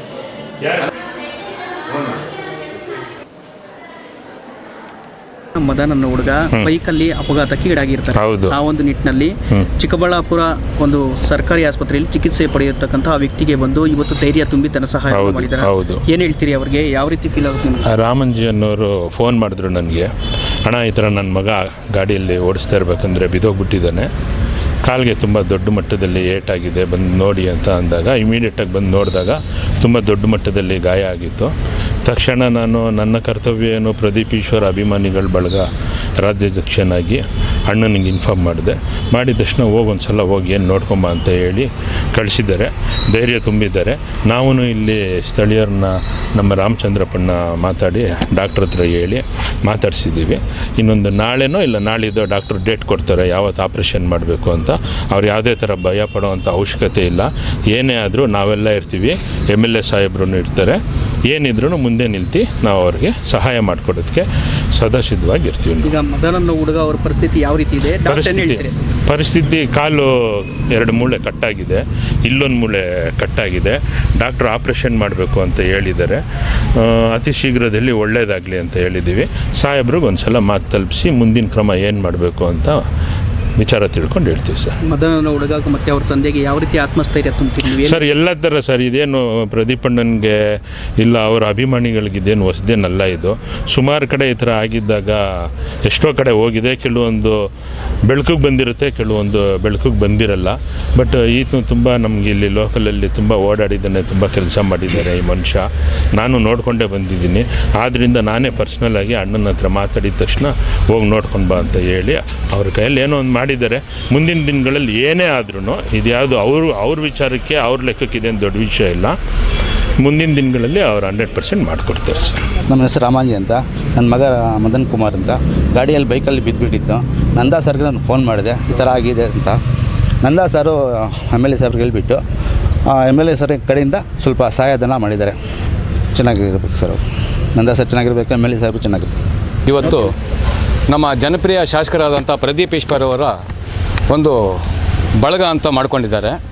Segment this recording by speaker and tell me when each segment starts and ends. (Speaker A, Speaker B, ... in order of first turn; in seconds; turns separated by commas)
Speaker A: 0.6-0.9, Speaker A: 1.9-2.2, Speaker B: 5.6-17.9, Speaker A: 8.2-8.6, Speaker A: 15.1-16.0, Speaker A: 17.9-20.1, Speaker A: 20.6-24.1, Speaker A: 24.9-31.5, Speaker A: 32.0-65.9, Speaker B: 65.8-68.7, Speaker A: 68.0-76.2, Speaker A: 76.8-82.8, Speaker A: 83.6-84.8, Speaker B: 84.9-88.0, Speaker A: 87.8-97.4, Speaker A: 98.1-119.2, Speaker A: 120.0-122.5, Speaker C: 122.7-129.6, Speaker C: 130.2-132.2, Speaker C: 132.9-135.4, Speaker C: 136.2-137.0, Speaker C: 137.6-139.1, Speaker D: 139.7-140.1, Speaker D: 140.9-143.4, Speaker D: 144.1-144.6, Speaker D: 145.2-146.4